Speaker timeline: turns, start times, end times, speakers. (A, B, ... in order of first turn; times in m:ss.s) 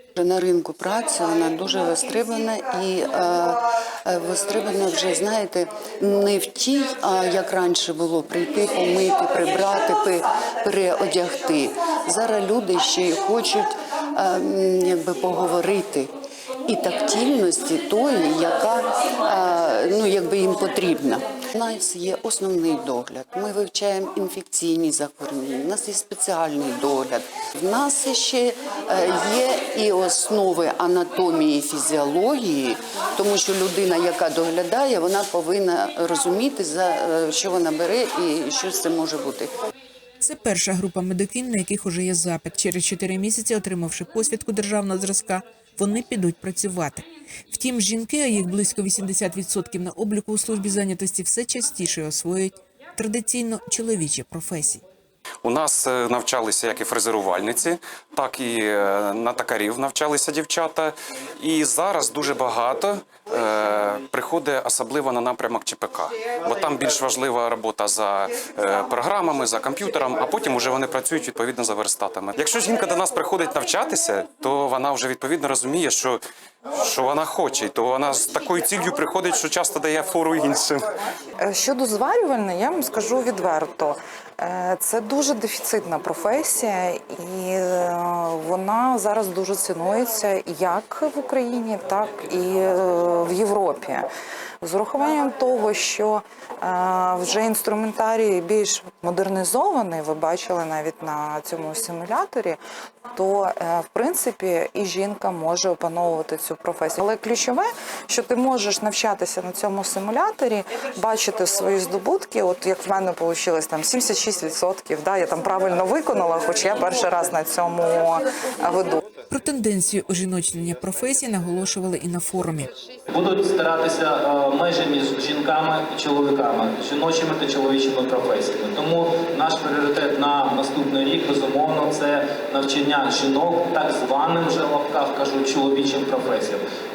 0:00.2-0:16.1 A
0:16.7-0:39.5 A
0:40.2-0:54.8 B
0:55.4-1:16.2 C
1:16.8-1:20.9 C
1:21.4-1:34.1 D
1:34.6-1:42.6 D
1:43.1-1:59.0 D
1:59.3-2:02.7 B
2:03.1-2:16.6 E